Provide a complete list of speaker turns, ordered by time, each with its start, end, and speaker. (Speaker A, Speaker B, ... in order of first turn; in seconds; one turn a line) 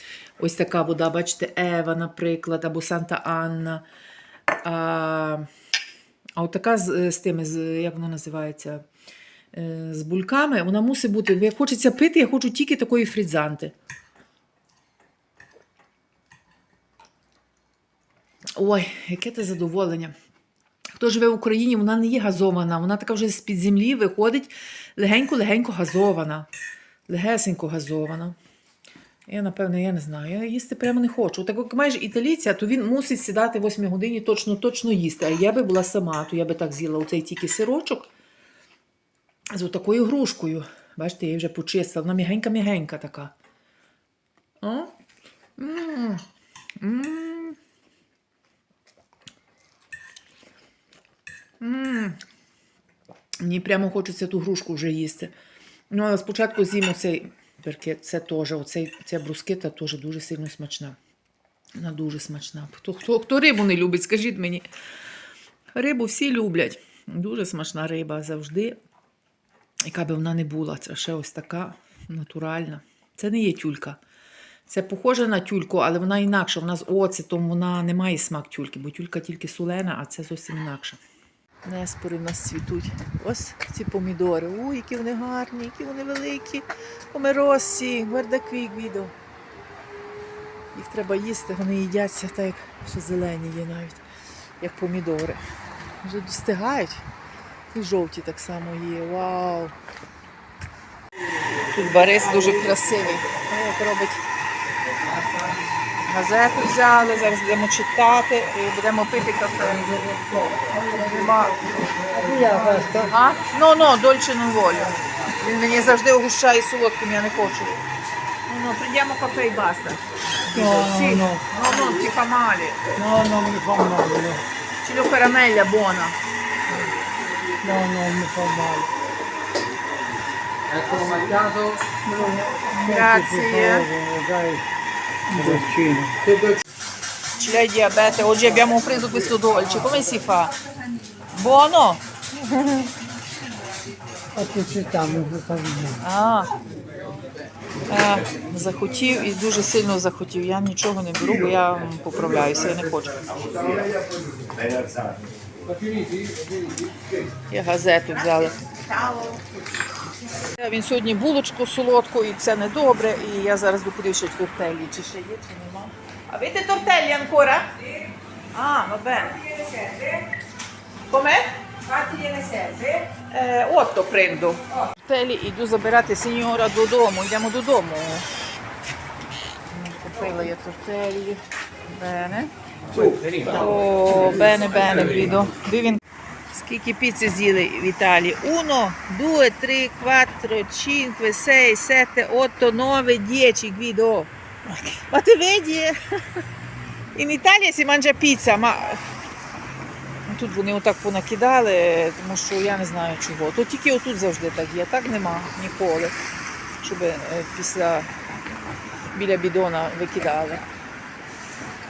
Speaker A: 0.4-3.8
Speaker A: 4.6-5.5
Speaker A: 6.3-8.8
Speaker A: 9.5-13.7
Speaker A: 18.6-20.1
Speaker A: 21.0-26.5
Speaker A: 27.1-28.3
Speaker A: 29.3-38.1
Speaker A: 39.5-43.3
Speaker A: 44.6-44.9
Speaker A: 45.6-46.2
Speaker A: 46.8-47.6
Speaker A: 51.6-52.2
Speaker A: 53.4-55.3
Speaker A: 55.9-61.0
Speaker A: 61.8-64.7
Speaker A: 65.7-68.7
Speaker A: 69.8-74.0
Speaker A: 74.7-81.0
Speaker A: 81.6-89.1
Speaker A: 90.7-94.0
Speaker A: 94.6-95.4
Speaker A: 96.0-97.0
Speaker A: 97.7-99.7
Speaker A: 101.7-104.2
Speaker A: 106.0-110.0
Speaker A: 110.8-111.6
Speaker B: 112.1-113.1
Speaker A: 113.1-117.8
Speaker A: 118.5-122.8
Speaker B: 120.5-121.5
Speaker B: 123.0-124.4
Speaker A: 124.8-126.2
Speaker B: 127.6-128.9
Speaker C: 130.7-131.7
Speaker B: 132.0-134.6
Speaker A: 132.8-133.9
Speaker B: 135.3-136.3
Speaker A: 137.4-140.5
Speaker A: 141.3-142.9
Speaker B: 144.3-146.0
Speaker A: 146.0-146.5
Speaker A: 147.9-153.2
Speaker C: 155.8-156.7
Speaker A: 157.5-159.4
Speaker A: 160.6-170.3
Speaker A: 171.1-178.2
Speaker A: 179.7-186.0
Speaker C: 183.0-183.5
Speaker A: 186.5-196.4
Speaker A: 197.1-199.0
Speaker A: 200.3-206.2
Speaker A: 206.8-208.1
Speaker A: 209.1-210.6